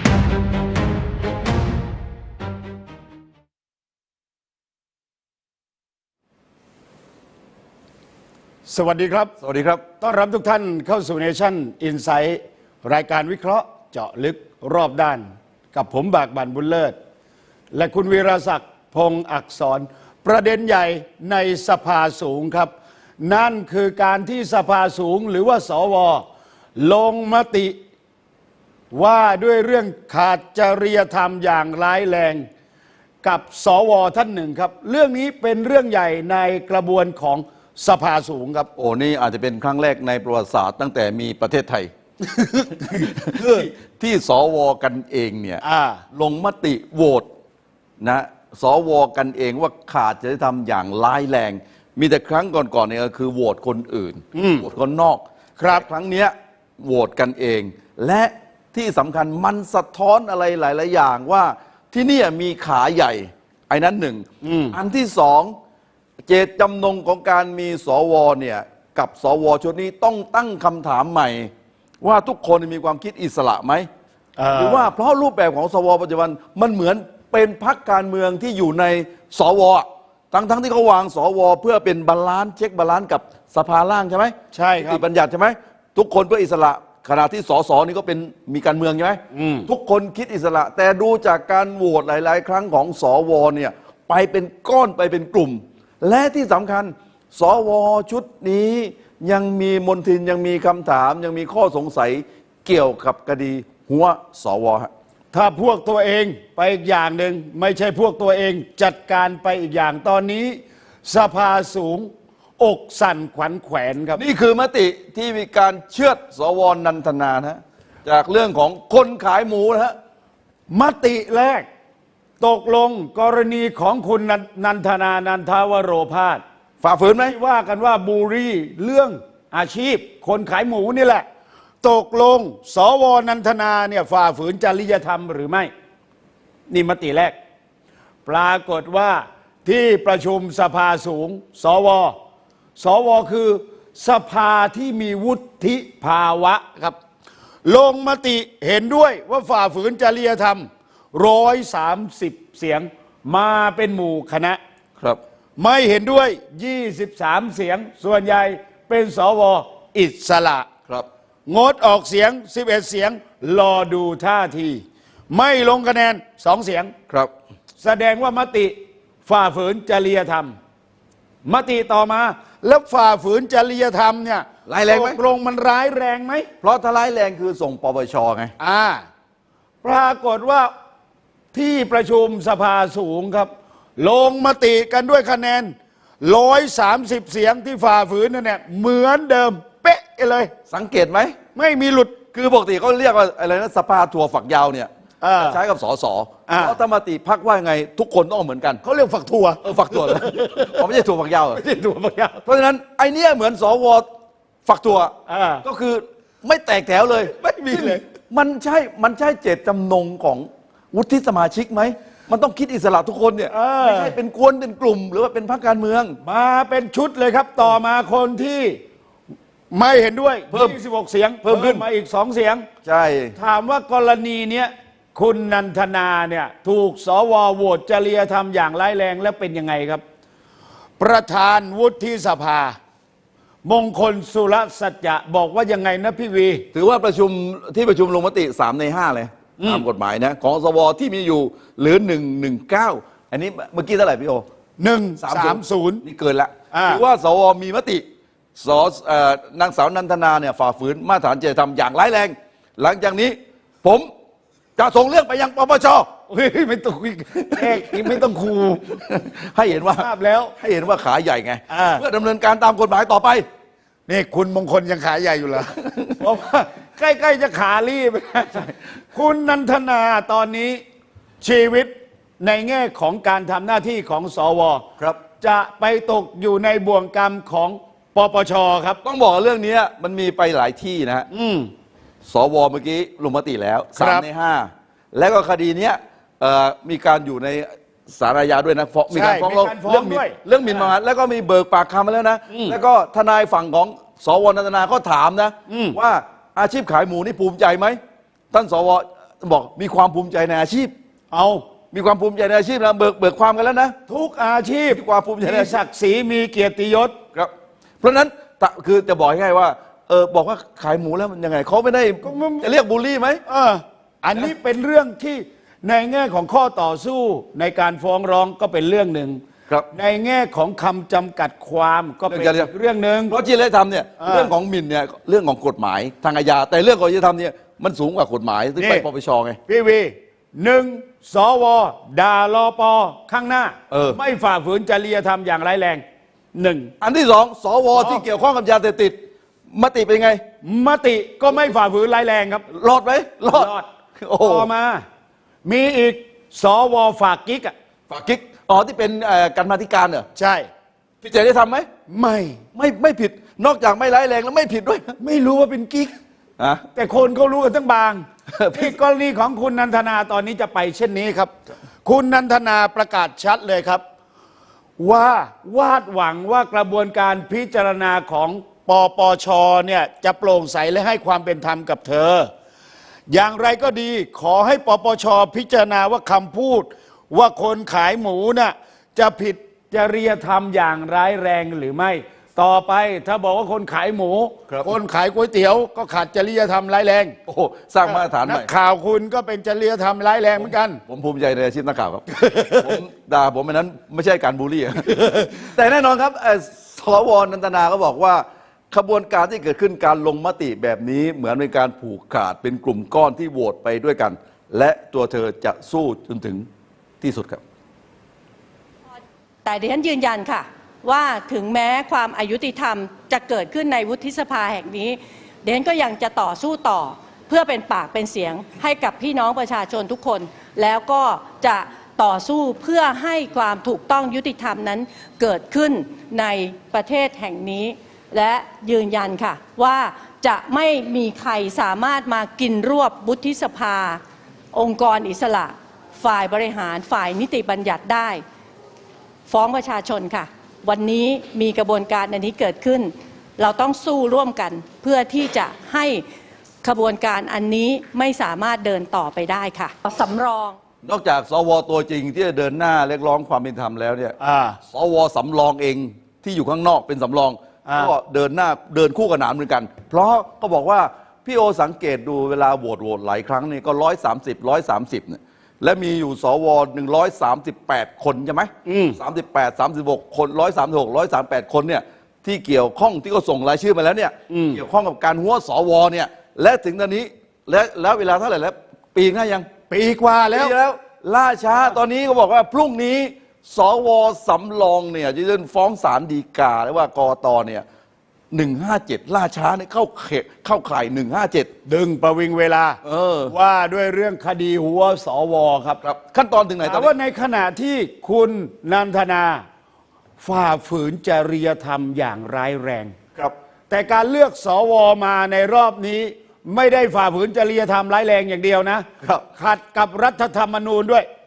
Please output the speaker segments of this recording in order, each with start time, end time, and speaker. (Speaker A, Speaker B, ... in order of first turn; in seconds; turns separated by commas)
Speaker A: 8.7-9.3, Speaker B: 9.4-9.8, Speaker A: 10.0-16.9, Speaker A: 17.7-26.2, Speaker A: 26.8-27.8, Speaker A: 28.9-32.5, Speaker A: 33.2-38.7, Speaker B: 38.8-41.9, Speaker A: 42.2-43.7, Speaker B: 42.9-47.3, Speaker A: 45.6-46.0, Speaker B: 48.0-65.5, Speaker A: 54.3-54.6, Speaker A: 55.6-55.8, Speaker A: 64.4-64.8, Speaker B: 66.3-73.9, Speaker A: 74.4-74.9, Speaker B: 74.5-104.9, Speaker A: 84.5-85.0, Speaker A: 89.3-89.7, Speaker A: 105.3-114.2, Speaker B: 114.2-120.0, Speaker A: 120.7-121.7, Speaker A: 122.4-126.4, Speaker B: 126.8-127.3, Speaker A: 127.2-131.2, Speaker A: 131.8-135.7, Speaker A: 136.7-137.3, Speaker A: 138.2-142.2, Speaker A: 142.8-146.9, Speaker A: 147.7-154.6, Speaker A: 155.6-160.7, Speaker A: 161.5-166.9, Speaker A: 167.8-168.7, Speaker A: 169.2-170.6, Speaker A: 171.4-176.5, Speaker B: 174.7-175.2, Speaker B: 176.6-178.5, Speaker A: 178.6-179.0, Speaker A: 179.8-180.7, Speaker A: 181.5-190.5, Speaker B: 190.7-191.4, Speaker A: 191.6-192.1, Speaker B: 192.3-198.8, Speaker A: 195.2-195.6, Speaker A: 196.5-196.8, Speaker A: 198.8-200.8, Speaker B: 199.6-201.6, Speaker A: 201.6-202.4, Speaker B: 202.4-204.1, Speaker B: 204.7-216.2, Speaker A: 205.3-205.6, Speaker A: 207.6-208.0, Speaker A: 213.5-214.1, Speaker A: 216.2-218.8, Speaker A: 219.7-222.7, Speaker B: 220.5-220.8, Speaker B: 221.4-221.8, Speaker B: 222.8-223.3, Speaker A: 223.3-230.0, Speaker A: 231.0-232.8, Speaker A: 233.6-236.7, Speaker B: 236.7-244.4, Speaker A: 239.6-239.8, Speaker A: 244.8-246.0, Speaker B: 245.2-248.0, Speaker A: 246.7-247.0, Speaker B: 248.6-254.1, Speaker B: 254.8-256.1, Speaker A: 256.3-259.0, Speaker B: 257.4-258.2, Speaker B: 258.9-263.4, Speaker A: 259.7-260.5, Speaker A: 261.7-262.0, Speaker A: 264.1-270.8, Speaker B: 265.8-266.2, Speaker A: 271.4-274.9, Speaker A: 275.4-279.0, Speaker B: 279.0-281.3, Speaker A: 281.3-281.7, Speaker B: 282.2-298.0, Speaker A: 283.9-284.2, Speaker A: 289.1-290.4, Speaker A: 292.5-292.8, Speaker A: 295.7-296.0, Speaker B: 298.5-300.9, Speaker A: 301.3-301.6, Speaker B: 301.9-304.0, Speaker A: 304.1-307.2, Speaker B: 304.9-305.8, Speaker B: 307.3-313.4, Speaker A: 312.2-312.7, Speaker A: 313.4-319.4, Speaker A: 319.9-323.3, Speaker B: 322.3-322.7, Speaker B: 323.3-329.6, Speaker A: 324.2-324.5, Speaker A: 328.8-329.1, Speaker A: 329.7-336.0, Speaker B: 333.9-334.2, Speaker A: 336.5-336.9, Speaker B: 337.0-339.2, Speaker A: 337.9-338.2, Speaker B: 339.7-340.4, Speaker A: 340.6-342.6, Speaker B: 342.7-344.7, Speaker A: 343.5-343.9, Speaker A: 344.4-345.0, Speaker A: 345.6-347.7, Speaker B: 348.1-350.2, Speaker A: 350.4-350.7, Speaker B: 351.2-351.9, Speaker A: 352.1-352.6, Speaker B: 352.7-355.1, Speaker A: 355.2-356.1, Speaker B: 356.6-356.8, Speaker A: 356.9-361.5, Speaker B: 358.5-358.9, Speaker A: 362.0-364.0, Speaker A: 365.0-372.5, Speaker A: 373.3-387.4, Speaker B: 387.5-388.7, Speaker A: 388.0-391.0, Speaker B: 390.6-406.7, Speaker A: 392.4-392.9, Speaker B: 407.2-407.6, Speaker C: 409.6-434.2, Speaker C: 434.7-438.4, Speaker C: 439.5-446.2, Speaker C: 446.8-450.8, Speaker B: 451.0-454.4, Speaker A: 454.4-454.8, Speaker B: 454.9-479.7, Speaker A: 457.9-458.1, Speaker A: 468.9-469.2, Speaker A: 474.5-474.8, Speaker A: 479.9-480.7, Speaker B: 480.5-487.8, Speaker B: 488.5-491.7, Speaker A: 491.9-496.0, Speaker B: 493.0-493.5, Speaker B: 496.0-497.1, Speaker A: 496.8-499.6, Speaker A: 500.4-503.1, Speaker A: 503.9-511.3